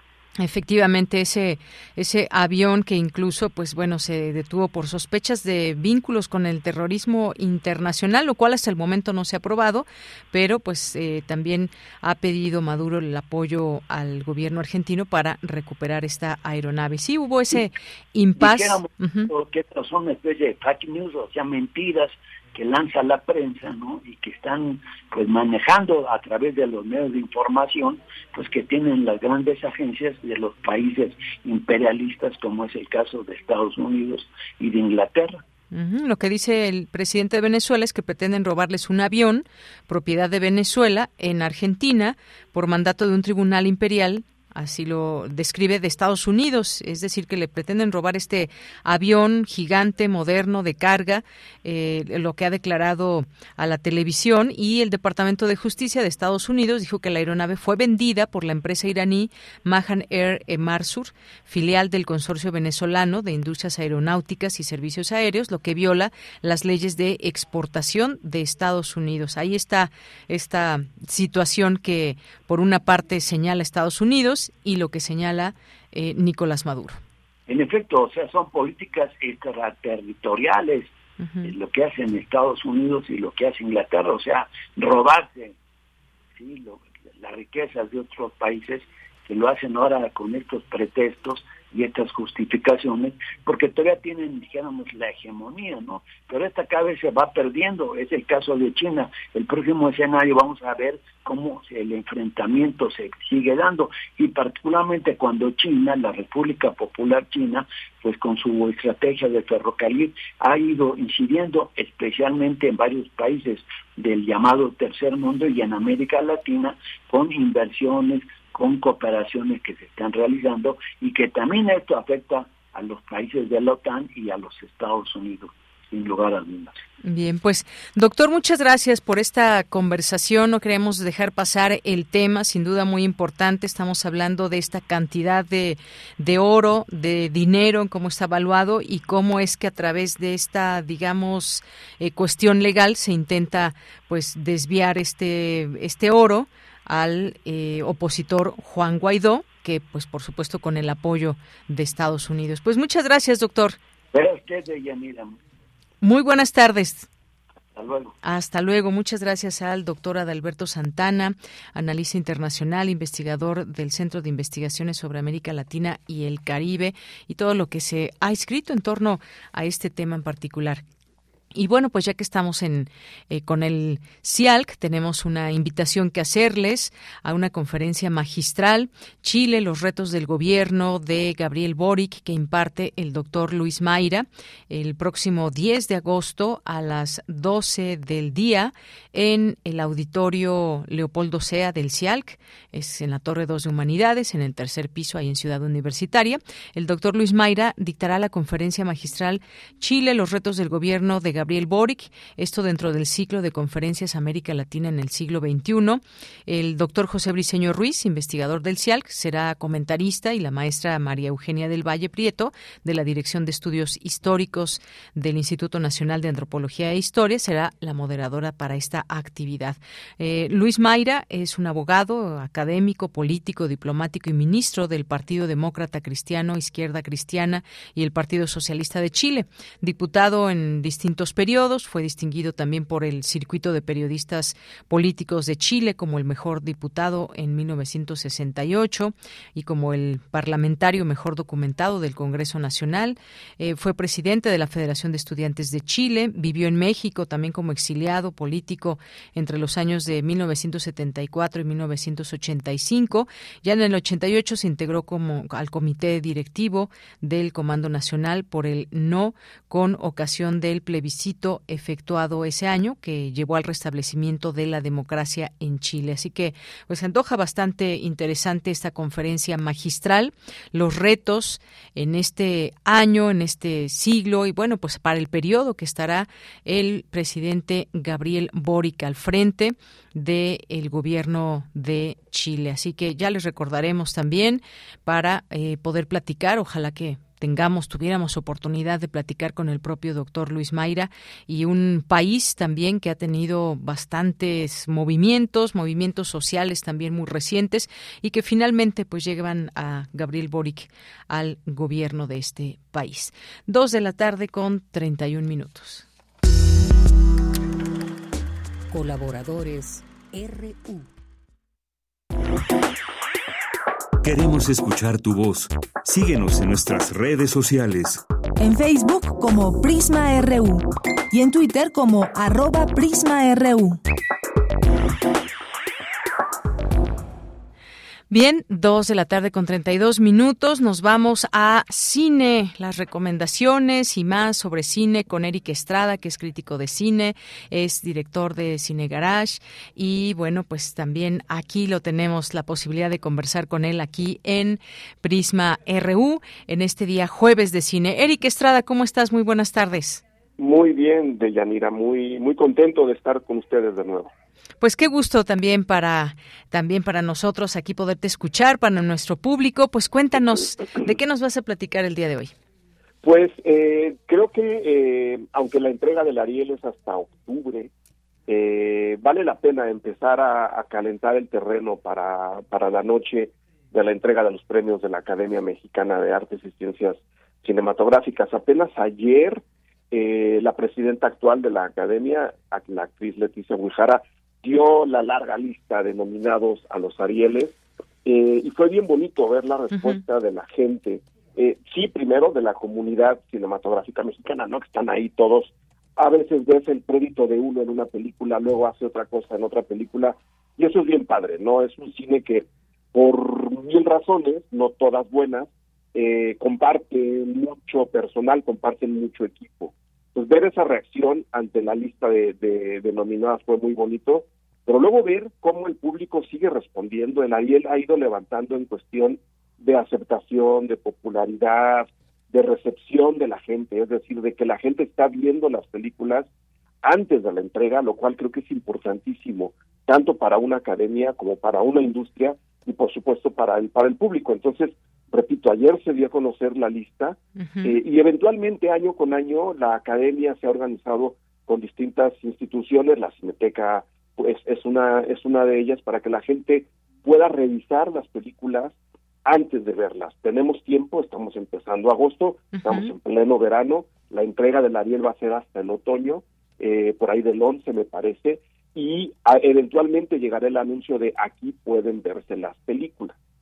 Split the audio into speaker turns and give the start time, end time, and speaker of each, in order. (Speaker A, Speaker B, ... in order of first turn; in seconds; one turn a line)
Speaker A: 0.4-19.3
Speaker B: 18.4-35.4
Speaker A: 35.7-77.0
Speaker B: 77.5-85.5
Speaker A: 81.2-81.5
Speaker B: 86.3-126.8
Speaker A: 127.0-153.8
Speaker B: 154.1-155.4
Speaker A: 156.0-157.1
Speaker B: 157.7-158.1
Speaker A: 158.2-170.8
Speaker A: 171.5-306.1
Speaker C: 308.9-311.1
Speaker D: 314.2-318.2
Speaker E: 318.6-324.0
Speaker A: 328.3-350.2
Speaker F: 350.6-354.3
Speaker A: 354.8-362.5
Speaker F: 363.2-367.9
Speaker F: 368.5-426.5
Speaker A: 389.9-390.2
Speaker F: 427.0-463.3
Speaker A: 437.6-438.0
Speaker A: 452.8-453.1